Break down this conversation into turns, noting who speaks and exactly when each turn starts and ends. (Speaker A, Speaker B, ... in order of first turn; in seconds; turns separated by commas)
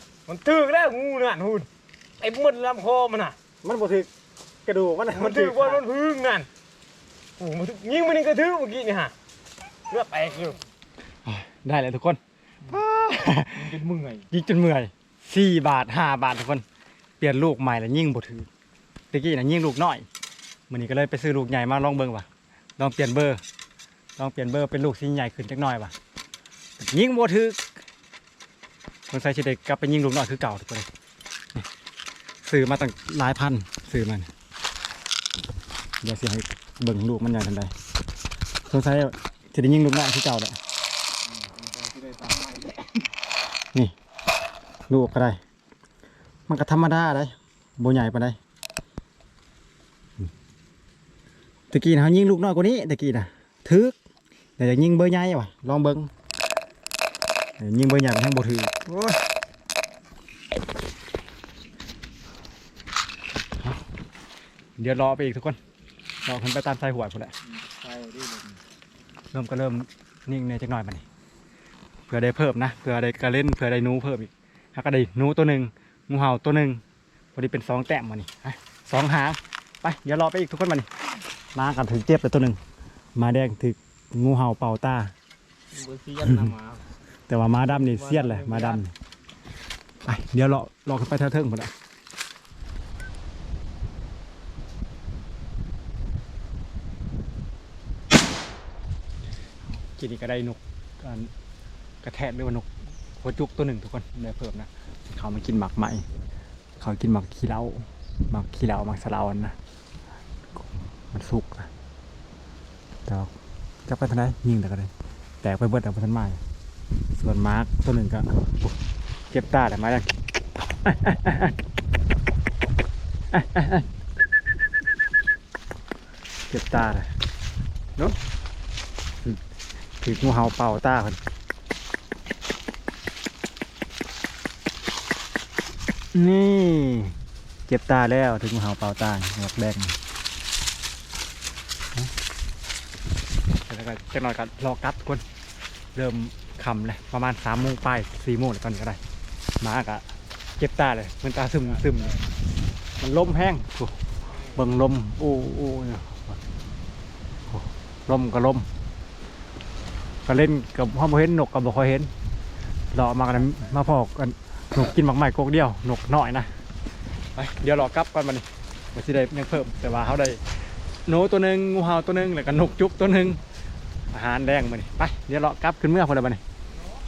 Speaker A: 0.3-1.7, Speaker A: 2.2-3.4, Speaker B: 3.6-4.1, Speaker B: 4.7-5.8, Speaker A: 5.1-6.5, Speaker A: 7.4-9.1, Speaker A: 9.9-10.6, Speaker B: 11.3-13.7, Speaker A: 13.6-14.3, Speaker B: 14.3-16.6, Speaker B: 17.2-18.5, Speaker B: 19.1-20.1, Speaker B: 20.7-22.3, Speaker B: 22.8-23.4, Speaker B: 24.2-25.9, Speaker B: 26.8-27.6, Speaker B: 29.1-30.9, Speaker B: 32.4-34.3, Speaker B: 36.0-37.7, Speaker B: 38.7-40.6, Speaker A: 41.3-42.9, Speaker B: 44.9-45.4, Speaker B: 46.5-48.4, Speaker B: 51.7-54.0, Speaker B: 54.6-56.1, Speaker B: 57.6-59.2, Speaker B: 64.8-65.6, Speaker B: 66.3-67.3, Speaker A: 67.7-68.6, Speaker B: 69.3-71.0, Speaker B: 72.1-76.8, Speaker B: 77.3-80.9, Speaker B: 81.5-82.6, Speaker B: 83.2-85.1, Speaker A: 85.7-86.8, Speaker B: 86.2-86.5, Speaker B: 87.3-88.9, Speaker A: 87.7-88.8, Speaker B: 90.0-91.7, Speaker B: 99.7-101.3, Speaker B: 102.0-102.7, Speaker B: 103.2-106.0, Speaker B: 106.8-109.5, Speaker B: 110.6-111.7, Speaker B: 113.1-113.3, Speaker B: 113.9-114.9, Speaker B: 115.4-116.4, Speaker B: 117.1-118.8, Speaker B: 119.3-120.1, Speaker B: 120.8-121.5, Speaker B: 123.3-123.9, Speaker B: 126.5-127.1, Speaker B: 130.0-131.2, Speaker B: 136.1-137.2, Speaker B: 137.7-140.0, Speaker B: 143.7-145.2, Speaker B: 145.9-149.0, Speaker B: 149.6-150.0, Speaker B: 150.6-152.2, Speaker B: 153.0-153.9, Speaker B: 154.5-156.4, Speaker B: 157.5-158.7, Speaker B: 160.3-162.1, Speaker B: 162.9-166.5, Speaker B: 167.4-170.4, Speaker B: 171.1-173.4, Speaker B: 174.1-176.4